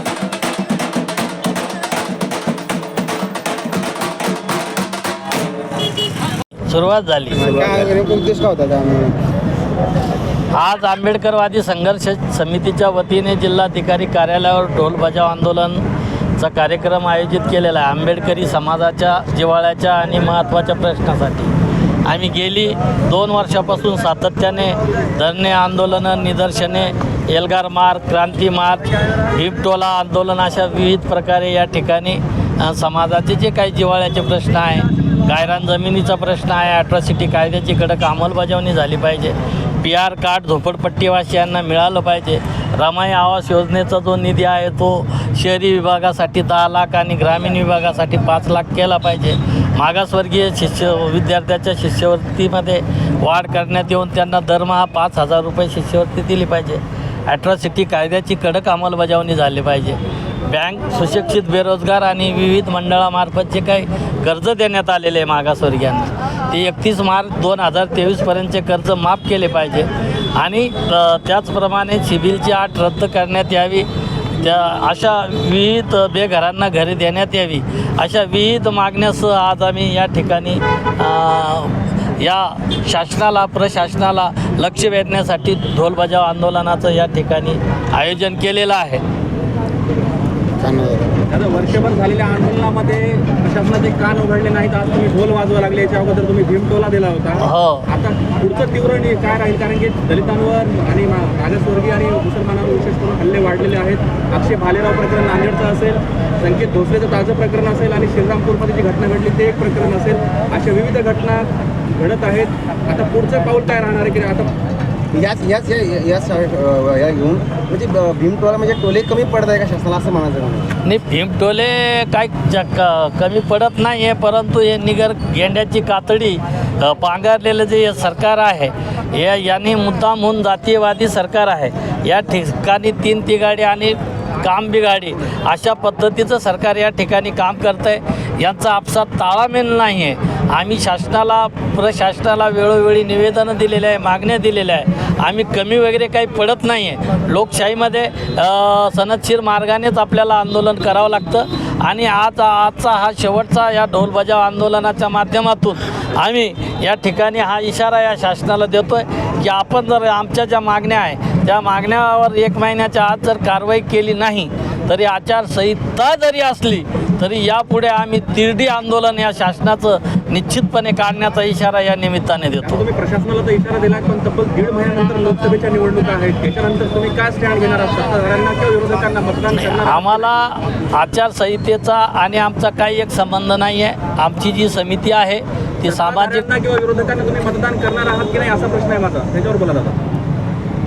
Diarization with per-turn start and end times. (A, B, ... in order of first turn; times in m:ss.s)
0:06.7-0:07.6 A
0:07.3-0:09.2 B
0:10.5-0:15.8 A
0:16.4-0:21.5 A
0:22.1-1:13.9 A
1:14.4-1:29.0 A
1:30.6-1:31.2 B
1:31.3-1:54.5 C
1:37.4-1:37.9 A
1:55.1-2:00.7 B
2:00.8-2:52.8 A
2:52.6-3:00.3 C
2:59.5-3:06.5 A
3:05.8-3:10.0 C